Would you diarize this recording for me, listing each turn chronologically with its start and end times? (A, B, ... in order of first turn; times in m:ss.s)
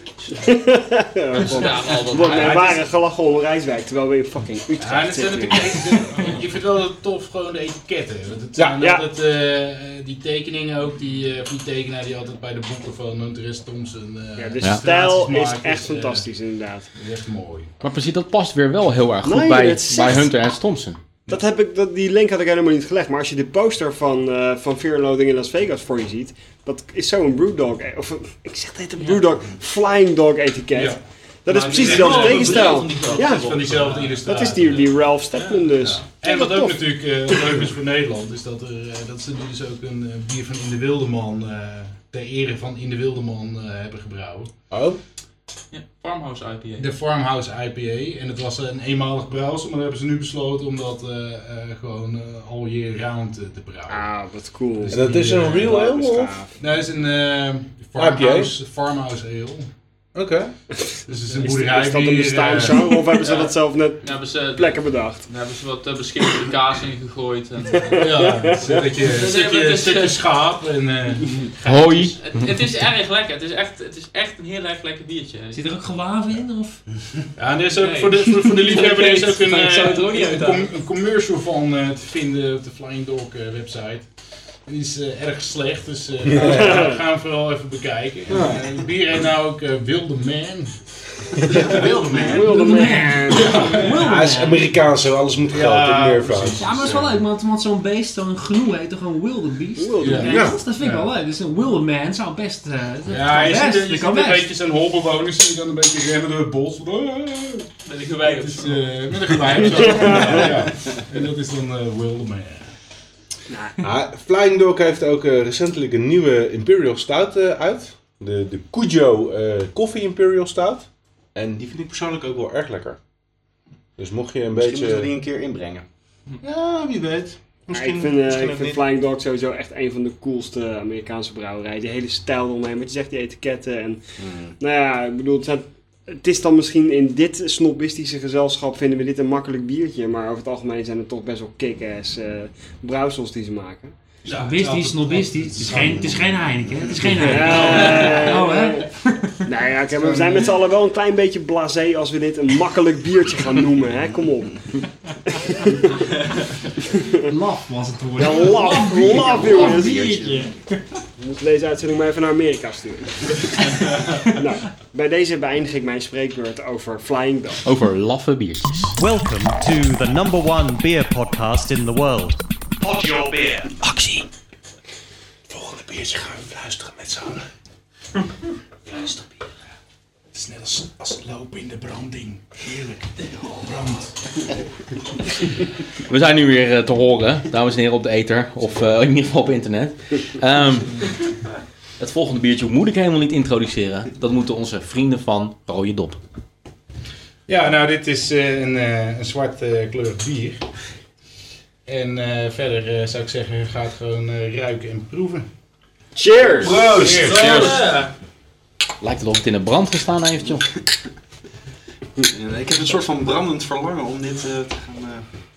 0:00.4-0:06.0 A
0:01.3-0:02.8 B
0:02.3-0:02.8 C
0:04.8-0:16.2 C
0:08.6-0:08.8 D
0:08.8-0:09.1 A
0:14.4-0:16.9 A
0:17.0-0:17.7 C
0:17.8-0:21.0 E
0:19.2-0:20.3 A
0:21.3-0:36.7 A
0:30.7-0:35.0 C
0:31.6-0:34.2 B
0:35.8-0:44.5 C
0:44.7-0:45.0 D
0:45.7-0:46.9 B
0:46.8-0:54.1 C
0:53.9-0:56.6 A
0:54.8-0:55.8 C
0:54.9-0:56.3 D
0:56.6-0:59.7 C
0:58.0-0:58.5 D
1:00.1-1:00.5 D
1:01.0-1:03.1 C
1:01.4-1:05.2 A
1:03.2-1:08.1 B
1:07.7-1:09.0 A
1:08.0-1:12.1 C
1:09.0-1:10.2 B
1:11.6-1:12.4 E
1:12.2-1:15.6 B
1:15.5-1:16.8 F
1:17.4-1:24.1 C
1:17.8-1:20.7 B
1:18.4-1:18.7 F
1:24.6-1:30.7 C
1:26.2-1:26.8 D
1:26.4-1:27.0 A
1:28.3-1:28.7 D
1:31.3-1:32.2 C
1:31.4-1:32.7 G
1:32.1-1:33.8 A
1:32.3-1:34.7 F
1:33.3-1:34.1 C
1:34.0-1:36.6 D
1:35.5-1:37.1 C
1:36.6-1:44.5 F
1:39.8-1:40.6 A
1:40.0-1:41.1 C
1:40.2-1:40.6 D
1:43.1-1:47.7 C
1:47.8-1:48.9 B
1:48.2-1:52.7 C
1:49.6-1:50.4 B
1:49.8-1:50.5 A
1:53.8-2:03.0 D
2:04.0-2:05.2 D
2:04.5-2:05.8 G
2:06.4-2:08.8 D
2:07.7-2:14.0 A
2:14.2-2:14.5 G
2:14.6-2:23.9 A
2:24.3-2:24.7 D
2:24.3-2:29.5 F
2:25.7-2:26.2 G
2:27.2-2:28.9 A
2:27.5-2:28.2 B
2:29.4-2:34.6 A
2:30.0-2:30.5 C
2:35.3-2:35.8 A
2:37.0-2:37.3 A
2:37.2-2:40.5 F
2:38.2-2:40.1 A
2:39.1-2:40.5 G
2:41.2-2:47.6 A
2:47.6-2:49.0 E
2:49.0-2:53.7 H
2:53.8-2:54.2 E
2:55.5-2:57.4 C
2:58.9-2:59.2 C
3:00.3-3:04.1 C
3:06.1-3:11.1 E
3:12.0-3:16.2 E
3:17.5-3:20.6 C
3:21.8-3:25.5 C
3:26.2-3:26.9 A
3:26.6-3:27.7 D
3:26.9-3:27.8 C
3:27.1-3:27.9 E
3:27.2-3:28.1 B
3:29.0-3:30.6 E
3:32.3-3:35.2 G